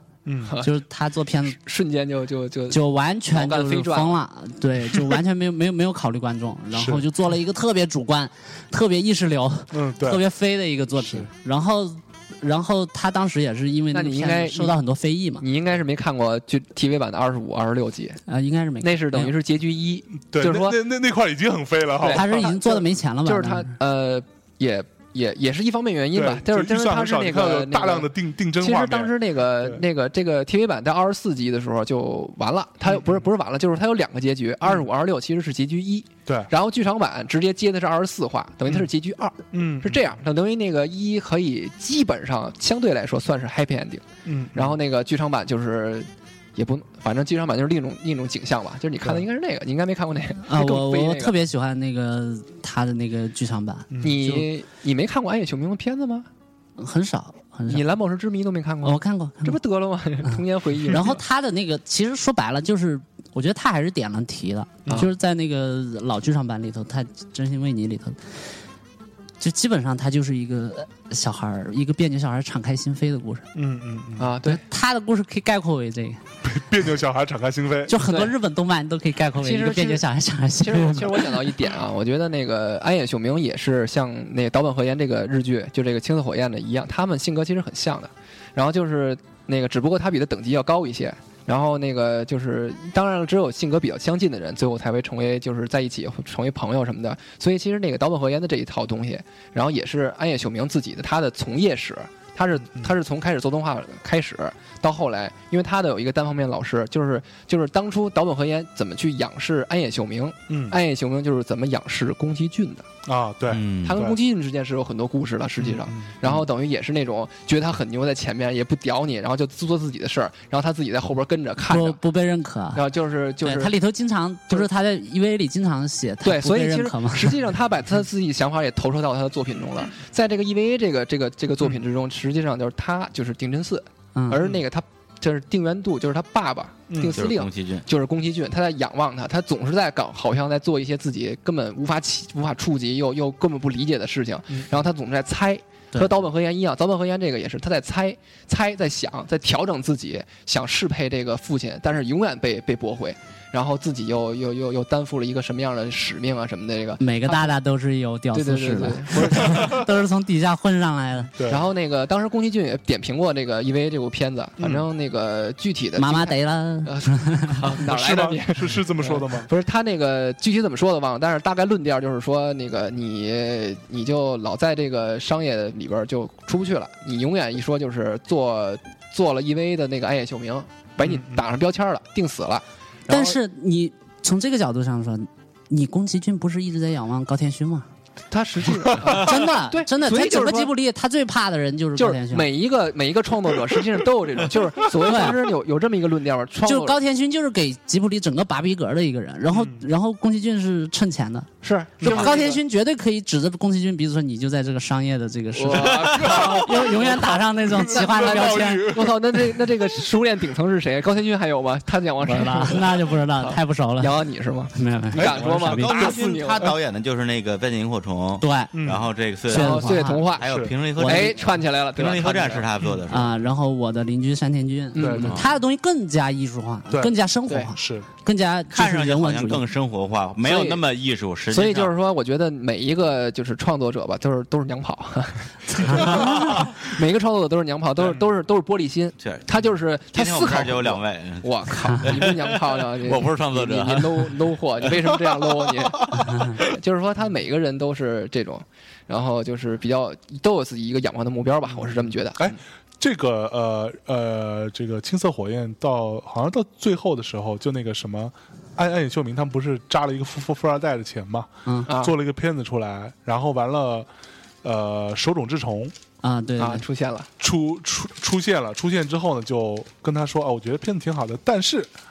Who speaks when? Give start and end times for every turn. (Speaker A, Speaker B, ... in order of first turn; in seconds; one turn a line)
Speaker A: 0.2-0.6
Speaker B: 0.4-0.7
Speaker C: 0.6-1.6
Speaker B: 1.5-4.2
Speaker C: 2.7-15.4
Speaker A: 6.7-7.0
Speaker A: 9.7-10.2
Speaker A: 11.0-11.3
Speaker B: 13.9-14.8
Speaker B: 15.4-18.2
Speaker C: 18.3-19.3
Speaker B: 18.8-20.8
Speaker A: 20.3-22.5
Speaker B: 22.0-51.4
Speaker C: 22.1-23.7
Speaker A: 26.1-29.8
Speaker A: 32.9-33.2
Speaker A: 39.5-40.1
Speaker A: 44.2-44.8
Speaker C: 50.4-54.5
Speaker A: 53.9-54.2
Speaker B: 54.0-56.3
Speaker C: 56.8-57.8
Speaker B: 57.7-61.2
Speaker C: 58.8-59.6
Speaker C: 60.2-68.4
Speaker C: 69.4-73.5
Speaker A: 73.5-74.3
Speaker B: 74.2-74.6
Speaker C: 74.4-76.2
Speaker A: 76.4-78.0
Speaker C: 77.9-81.5
Speaker B: 78.0-78.3
Speaker B: 79.4-80.0
Speaker B: 80.6-112.9
Speaker A: 110.5-110.8
Speaker A: 113.0-114.2
Speaker D: 113.5-114.0
Speaker B: 113.8-122.0
Speaker A: 115.6-116.4
Speaker C: 121.6-122.8
Speaker B: 122.7-123.7
Speaker C: 123.4-127.4
Speaker B: 126.2-157.6
Speaker C: 134.1-134.4
Speaker A: 136.9-137.2
Speaker D: 137.1-137.9
Speaker C: 157.0-161.3
Speaker B: 158.3-159.9
Speaker A: 161.3-161.7
Speaker B: 161.5-183.4
Speaker A: 164.6-164.9
Speaker C: 166.0-167.6
Speaker A: 167.7-169.5
Speaker A: 181.0-181.5
Speaker C: 183.1-187.9
Speaker B: 188.3-190.7
Speaker C: 189.0-192.5
Speaker B: 191.9-197.0
Speaker C: 195.0-195.4
Speaker C: 196.6-208.9
Speaker A: 199.5-199.9
Speaker B: 201.6-202.6
Speaker A: 202.0-202.3
Speaker B: 205.5-216.7
Speaker A: 205.9-210.0
Speaker C: 212.2-214.2
Speaker C: 214.7-216.2
Speaker A: 215.2-216.7
Speaker D: 215.2-223.3
Speaker C: 218.4-218.7
Speaker A: 218.7-219.1
Speaker C: 219.5-220.3
Speaker B: 219.5-220.5
Speaker A: 220.4-220.7
Speaker C: 221.0-221.3
Speaker B: 221.0-222.7
Speaker C: 223.1-229.6
Speaker B: 224.9-225.4
Speaker A: 225.0-225.4
Speaker A: 226.9-227.2
Speaker A: 227.7-228.1
Speaker D: 228.7-231.9
Speaker B: 230.4-230.8
Speaker B: 231.5-252.6
Speaker C: 235.9-236.7
Speaker D: 236.0-236.3
Speaker D: 239.2-239.5
Speaker D: 240.1-245.2
Speaker C: 246.2-246.6
Speaker A: 252.4-264.1
Speaker B: 261.9-262.1
Speaker A: 264.6-265.9
Speaker C: 266.2-266.8
Speaker B: 266.6-267.3
Speaker A: 267.4-271.9